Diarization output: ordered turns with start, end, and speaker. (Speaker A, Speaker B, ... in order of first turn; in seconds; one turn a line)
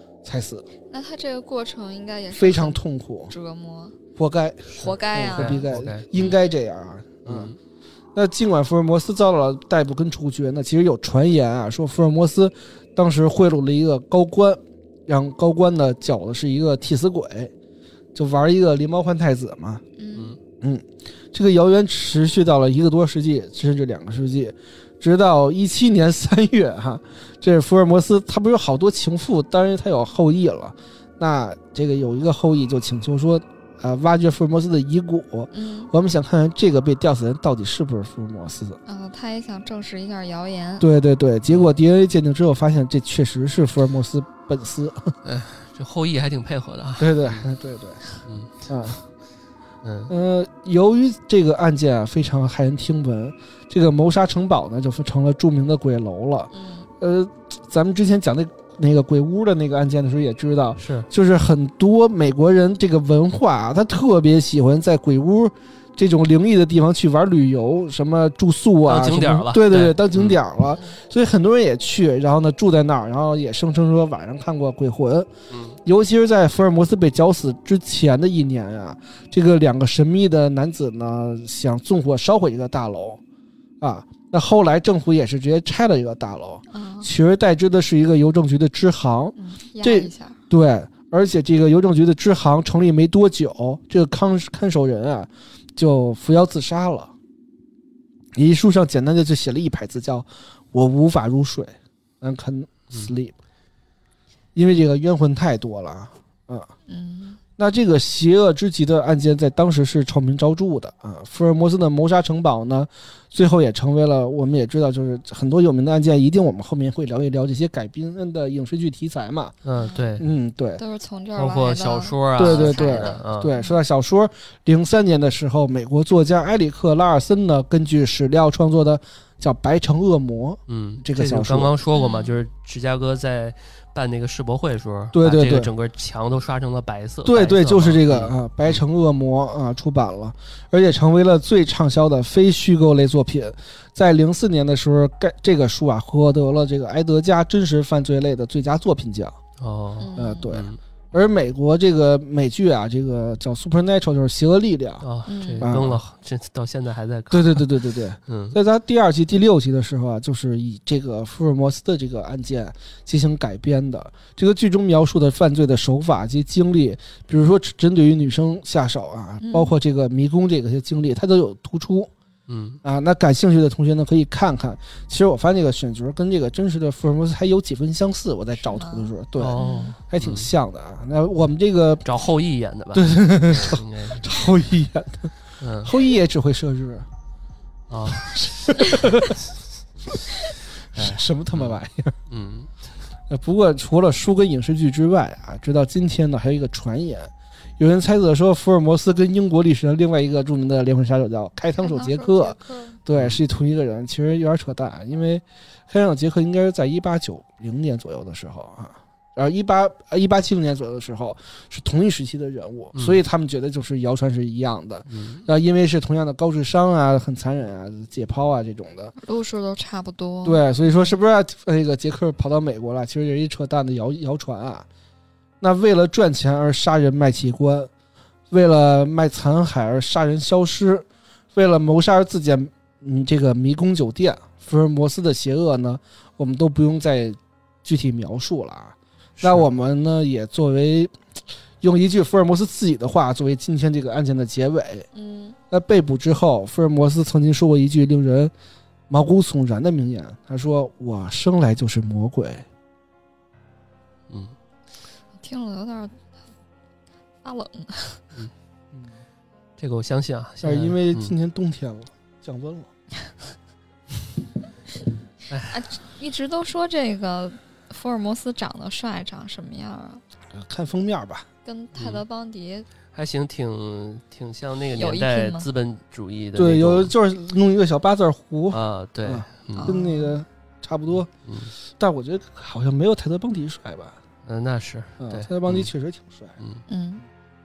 Speaker A: 0.2-0.7
Speaker B: 0.9-4.0
Speaker A: 2.3-3.3
Speaker A: 4.2-7.5
Speaker C: 4.7-6.4
Speaker B: 4.8-5.7
Speaker C: 7.2-7.6
Speaker A: 8.1-17.5
Speaker A: 18.1-19.8
Speaker B: 19.9-20.4
Speaker A: 20.6-38.8
Speaker B: 35.5-35.9
Speaker B: 38.9-40.9
Speaker A: 40.8-45.1
Speaker C: 41.5-41.7
Speaker C: 45.2-47.5
Speaker A: 47.0-48.0
Speaker C: 48.2-49.0
Speaker A: 48.7-49.0
Speaker C: 49.8-50.1
Speaker A: 50.1-75.3
Speaker B: 56.5-56.9
Speaker C: 60.8-61.1
Speaker C: 68.8-70.4
Speaker C: 75.5-75.8
Speaker A: 75.8-83.2
Speaker A: 83.8-97.1
Speaker B: 86.7-87.1
Speaker B: 89.4-90.4
Speaker A: 98.4-103.3
Speaker A: 104.5-106.7
Speaker B: 106.9-107.4
Speaker A: 107.6-119.5
Speaker C: 119.6-120.2
Speaker B: 119.8-120.2
Speaker A: 120.2-120.8
Speaker B: 120.8-123.8
Speaker C: 121.4-123.5
Speaker A: 122.4-131.7
Speaker C: 130.7-138.8
Speaker B: 131.9-132.4
Speaker A: 135.1-135.7
Speaker A: 137.2-149.4
Speaker C: 149.6-150.8
Speaker B: 150.0-150.5
Speaker A: 150.2-155.1
Speaker C: 155.0-158.6
Speaker B: 155.3-155.7
Speaker A: 155.6-156.0
Speaker A: 157.3-172.1
Speaker B: 169.4-169.7
Speaker C: 172.5-172.8
Speaker A: 172.8-182.1
Speaker B: 178.6-179.9
Speaker C: 179.4-180.5
Speaker C: 182.1-184.3
Speaker A: 182.9-187.1
Speaker C: 185.6-185.9
Speaker C: 187.9-189.0
Speaker A: 188.2-189.4
Speaker A: 190.1-190.4
Speaker A: 190.9-192.1
Speaker C: 190.9-192.7
Speaker A: 193.3-219.1
Speaker B: 201.8-203.0
Speaker C: 203.2-203.4
Speaker C: 212.9-213.2
Speaker C: 215.1-215.4
Speaker B: 219.2-221.2
Speaker A: 220.4-224.9
Speaker A: 225.6-227.9
Speaker A: 228.5-241.1
Speaker C: 239.4-239.6
Speaker A: 241.8-245.1
Speaker B: 245.1-245.6
Speaker A: 245.7-248.5
Speaker A: 249.1-252.6
Speaker C: 254.3-254.6
Speaker B: 255.4-256.2
Speaker B: 257.4-258.2
Speaker C: 259.8-261.4
Speaker A: 260.6-262.9
Speaker C: 265.5-265.8
Speaker B: 265.7-270.2
Speaker A: 270.5-271.5
Speaker B: 271.6-272.9
Speaker C: 271.9-272.2
Speaker C: 273.1-277.1
Speaker B: 274.9-275.7
Speaker A: 276.6-281.3
Speaker C: 278.7-280.0
Speaker B: 279.7-280.3
Speaker C: 281.4-281.7
Speaker A: 282.0-284.2
Speaker C: 284.4-285.9
Speaker A: 285.2-286.6
Speaker B: 286.9-287.2